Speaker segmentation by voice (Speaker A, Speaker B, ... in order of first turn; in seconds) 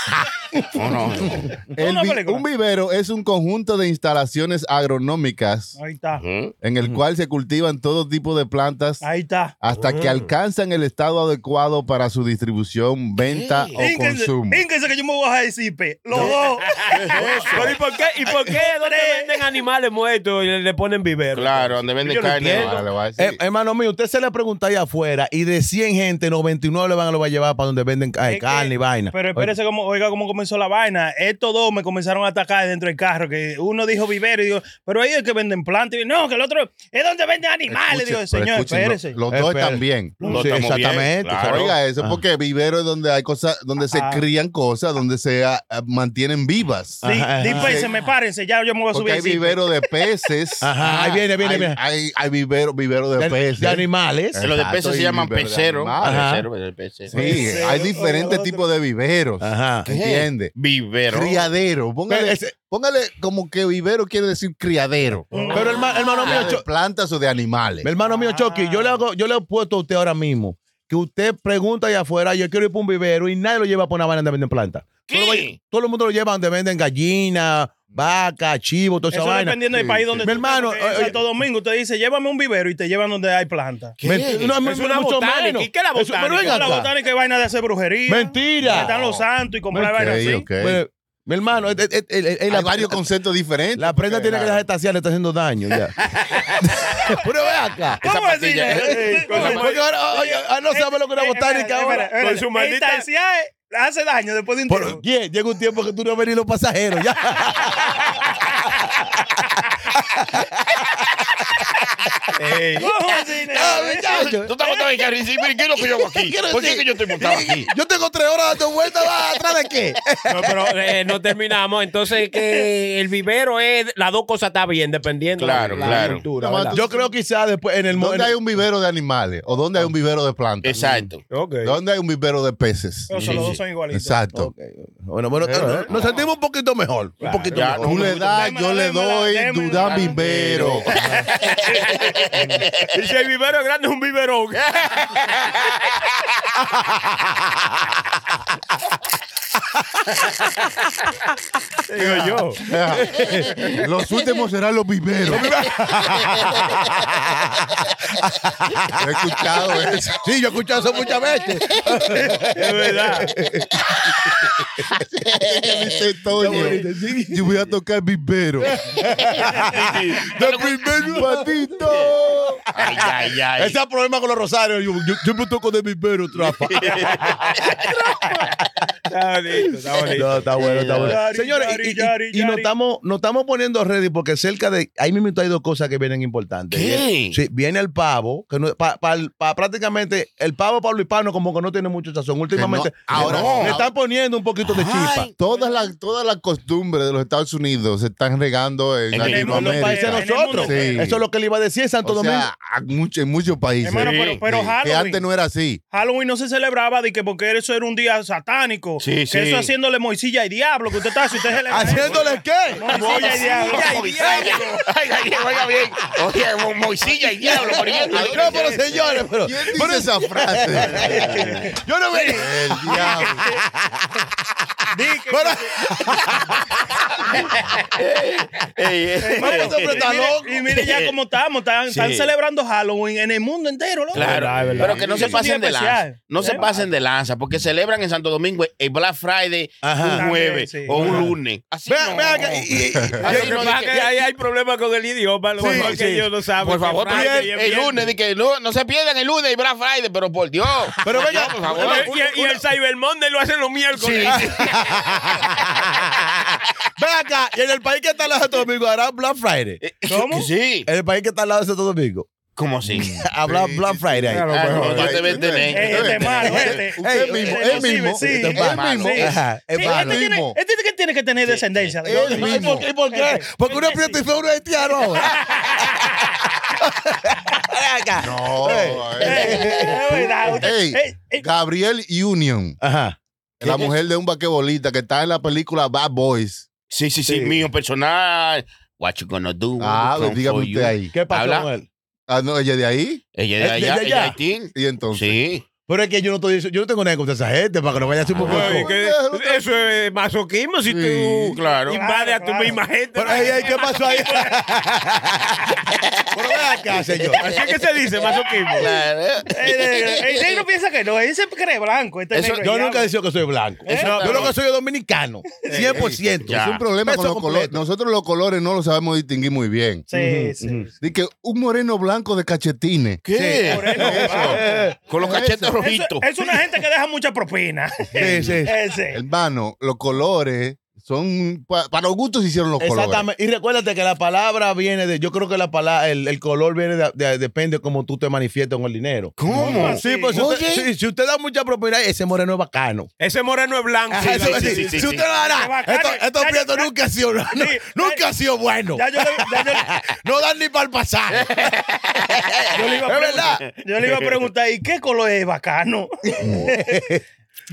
Speaker A: 0.7-1.4, 6.2-6.5, 13.3-13.8, 16.9-17.7, 21.3-22.9, 40.2-41.7, 54.4-57.1, 59.9-61.4, 65.6-66.5, 75.1-75.6, 84.0-84.6, 98.0-99.0, 114.0-117.7, 125.4-126.2, 130.6-131.2, 133.1-133.6, 137.5-138.3, 139.7-142.9, 144.6-146.1, 165.3-165.8, 166.5-166.8, 169.4-171.2, 172.8-173.8, 176.4-177.9, 180.5-181.2, 186.7-187.4, 193.1-193.8, 194.6-195.3, 199.1-199.6, 204.0-204.4, 209.0-209.7, 212.9-218.9, 220.9-221.7, 227.3-230.0, 230.7-231.1, 231.9-232.3, 234.2-244.1, 245.7-246.0, 246.6-252.2, 253.9-255.0, 259.8-260.9, 262.6-263.1, 264.5-266.8, 267.4-269.4, 271.5-271.9, 283.6-283.9, 286.9-291.7, 293.4-295.6, 301.5-302.0, 308.7-310.6, 312.3-312.6, 313.9-314.6, 316.5-316.9, 323.2-324.5, 325.1-326.2, 339.4-340.9, 344.2-345.3, 351.3-352.6, 353.6-354.2
Speaker B: 1.7-2.4, 5.8-6.2, 9.0-9.5, 13.8-17.0, 18.4-19.4, 28.3-39.2, 40.2-40.5, 43.9-44.2, 47.0-49.7, 57.2-58.7, 65.3-65.9, 68.0-69.0, 79.1-84.0, 86.4-90.5, 98.0-99.6, 100.2-105.0, 112.8-114.8, 133.1-134.2, 138.2-140.2, 180.9-182.7, 195.5-195.8, 199.2-201.1, 203.8-205.2, 205.9-214.0, 222.1-223.5, 224.9-225.8, 229.2-234.3, 235.1-236.6, 240.0-241.2, 260.1-260.5, 265.7-274.2, 275.3-275.7, 279.2-281.4, 301.9-304.2, 309.5-313.1, 313.9-314.1, 320.1-320.9, 323.7-324.8, 325.8-329.2, 339.5-340.4, 345.4-346.9, 347.5-348.2, 348.9-349.9, 352.7-357.1
Speaker C: 1.7-5.8, 6.6-9.0, 9.6-14.6, 17.1-17.8, 22.5-23.4, 37.7-47.9, 48.9-56.3, 57.1-60.5, 61.1-65.6, 66.2-67.9, 88.7-89.2, 90.0-90.8, 92.5-94.6, 125.8-126.8, 127.9-131.1, 131.6-134.5, 135.4-136.1, 137.7-141.1, 151.9-155.6, 159.0-160.2, 165.2-168.8, 171.0-172.7, 192.5-193.9, 195.4-201.2, 202.0-205.8, 218.2-218.8, 219.4-221.5, 222.3-223.4, 262.9-269.2, 269.8-270.6, 272.1-272.9, 278.2-279.9, 280.5-282.8, 283.6-286.7, 289.8-291.1, 292.3-293.2, 294.8-295.4, 298.3-299.8, 300.9-301.6, 315.8-320.1, 321.0-323.2, 324.0-324.6, 325.2-325.8, 328.2-328.5, 329.1-333.3, 356.4-356.7
Speaker D: 9.8-10.3, 17.5-22.8, 65.3-65.6, 84.6-86.8, 99.2-99.9, 102.0-103.1, 112.4-112.9, 120.3-126.8, 131.3-131.8, 137.2-137.7, 140.6-141.2, 142.9-144.6, 151.9-152.6, 162.5-163.3, 178.2-178.5, 179.1-180.4, 212.8-214.7, 218.1-218.6, 234.2-235.1, 243.2-248.1, 251.7-254.5, 264.3-265.1, 298.4-304.2, 307.4-308.9, 343.2-345.0
Speaker E: 23.2-29.6, 39.3-42.2, 47.0-47.9, 50.6-51.8, 53.2-54.4, 56.0-56.5, 57.1-57.6, 59.4-59.9, 62.1-62.5, 65.5-66.6, 67.8-79.6, 80.2-81.2, 84.0-86.9, 88.1-89.0, 89.7-93.0, 93.8-95.9, 96.8-98.0, 98.7-102.1, 104.7-108.2, 109.4-111.5, 113.5-114.5, 116.0-120.7, 126.7-128.4, 134.3-138.2, 146.8-147.1, 152.9-153.7, 155.3-159.0, 160.2-163.7, 166.3-167.6, 168.6-171.5, 172.6-177.4, 180.1-195.3, 199.4-202.5, 211.7-213.2, 213.9-214.5, 217.4-224.7, 225.3-226.8, 229.4-230.7, 234.2-235.4, 236.5-236.9, 239.8-240.2, 240.9-241.3, 241.9-243.8, 245.6-246.3, 247.1-247.5, 251.0-252.6, 254.3-259.8, 260.9-262.3, 263.0-265.2, 266.8-270.2, 272.1-275.3, 276.7-280.6, 282.8-283.2, 287.3-287.6, 291.1-291.9, 293.6-294.4, 295.9-298.9, 303.1-305.8, 306.3-307.4, 312.6-317.8, 320.1-320.9, 323.3-324.9, 328.2-328.7, 332.8-343.1, 344.1-353.6, 356.4-357.2